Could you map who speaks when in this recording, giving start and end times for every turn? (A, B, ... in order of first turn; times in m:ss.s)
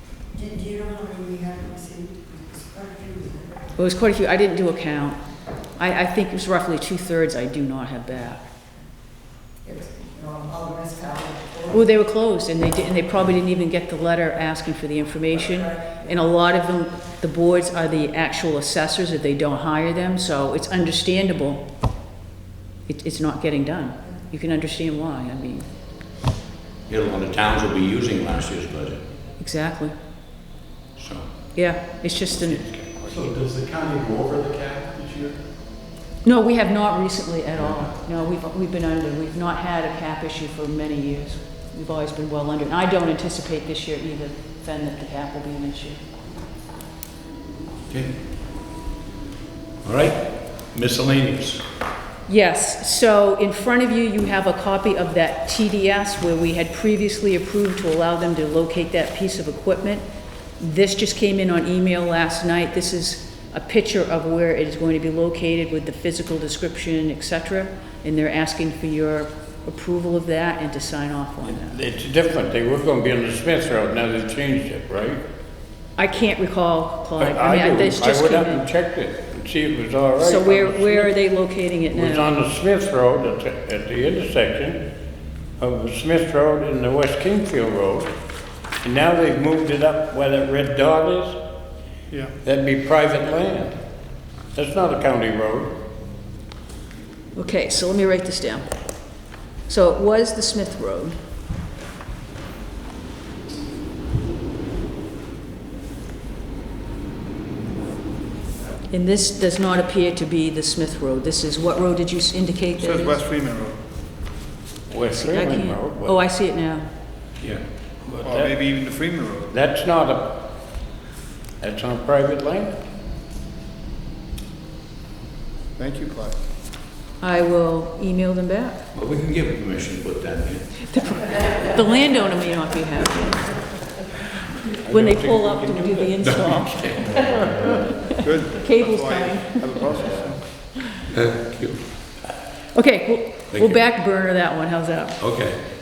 0:00.4-0:03.3 A
0:03.8-0:05.2 B
0:05.8-0:08.4 B
0:09.7-0:11.6 A
0:11.7-0:21.7 B
0:22.9-0:25.7 B
0:26.9-0:29.0 C
0:29.4-0:29.9 B
0:31.0-0:31.3 C
0:31.5-0:33.3 B
0:32.5-0:33.3 C
0:33.1-0:35.4 D
0:36.2-0:46.0 B
0:37.7-0:37.9 C
0:47.9-0:48.2 C
0:49.8-0:51.6 C
0:52.3-1:00.0 B
1:00.6-1:11.8 B
1:11.5-1:15.2 E
1:16.0-1:18.6 B
1:17.2-1:21.1 E
1:20.2-1:22.3 B
1:21.9-1:24.8 E
1:25.6-1:28.1 E
1:28.8-1:31.4 E
1:32.4-1:33.8 E
1:34.5-1:35.7 E
1:37.4-1:38.7 B
1:39.7-1:41.2 B
1:48.9-1:53.2 B
1:52.8-1:53.8 F
1:54.9-1:56.2 E
1:55.2-1:56.9 B
1:58.0-1:58.5 E
1:58.2-1:59.5 F
1:59.5-2:00.5 E
2:01.6-2:02.8 E
2:05.8-2:06.4 F
2:07.2-2:08.8 B
2:08.9-2:10.9 C
2:10.8-2:13.6 B
2:14.7-2:19.8 B
2:14.7-2:16.2 E
2:16.2-2:17.9 C
2:18.2-2:20.5 F
2:21.1-2:21.8 C
2:22.7-2:25.2 B
2:23.5-2:23.8 C
2:25.2-2:25.6 C